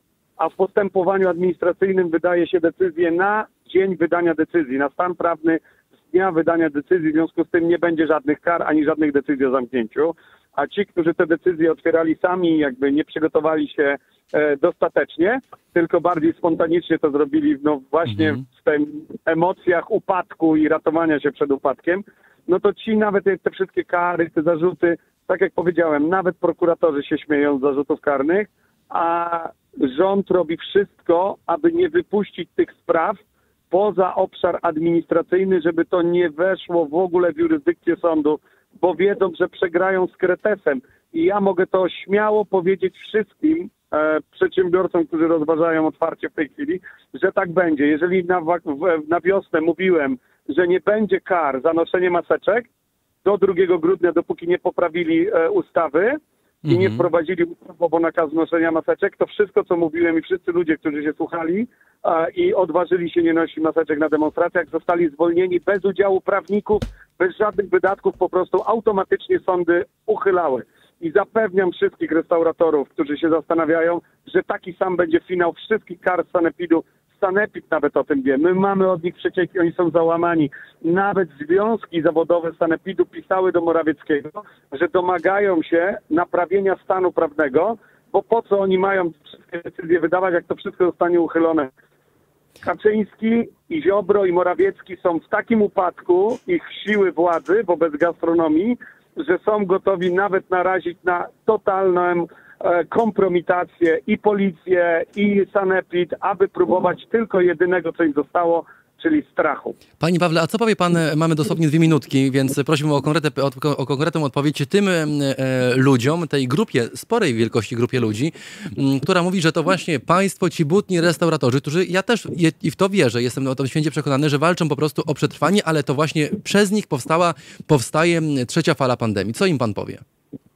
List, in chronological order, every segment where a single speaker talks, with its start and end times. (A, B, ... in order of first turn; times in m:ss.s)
0:00.4-0:33.2 A
0:18.1-0:18.4 B
0:33.7-0:52.7 A
0:53.2-0:56.2 A
0:56.7-0:57.0 B
0:56.7-1:31.7 A
1:32.6-1:49.8 A
1:50.0-2:10.0 B